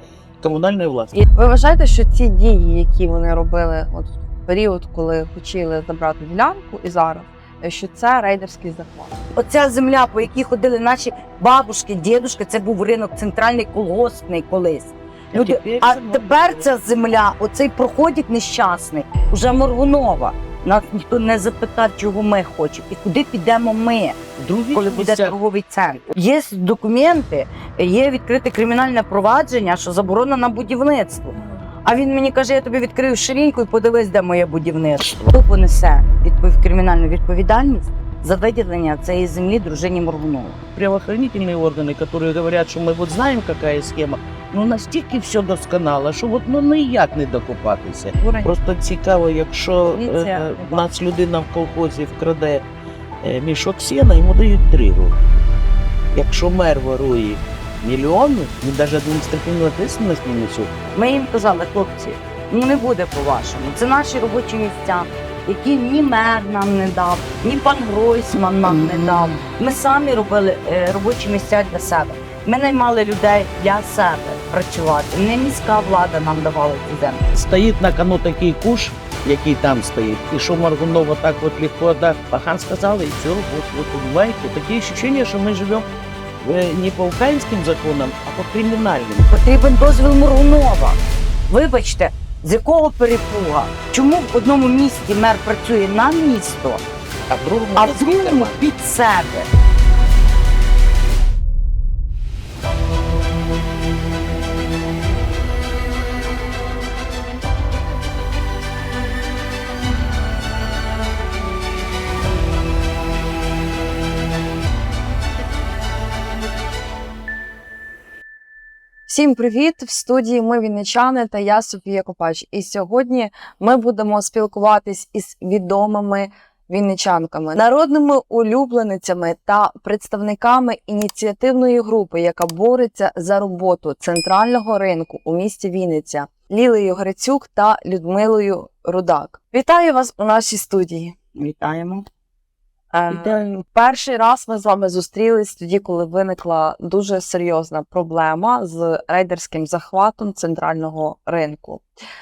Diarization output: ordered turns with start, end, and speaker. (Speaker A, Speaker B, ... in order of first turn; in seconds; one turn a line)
Speaker A: 0.4-1.1
Speaker B: 1.3-9.1
Speaker C: 9.3-24.2
Speaker A: 15.3-16.7
Speaker A: 24.4-25.3
Speaker C: 24.7-40.6
Speaker A: 40.7-52.6
Speaker B: 48.2-48.5
Speaker B: 49.9-50.8
Speaker A: 53.2-55.1
Speaker A: 56.1-60.8
Speaker C: 60.9-77.2
Speaker A: 77.3-85.9
Speaker A: 86.4-89.3
Speaker C: 89.3-91.0
Speaker C: 91.5-96.8
Speaker A: 97.3-98.6
Speaker C: 97.8-99.5
Speaker B: 119.1-141.2
Speaker C: 141.3-142.1
Speaker B: 142.9-151.8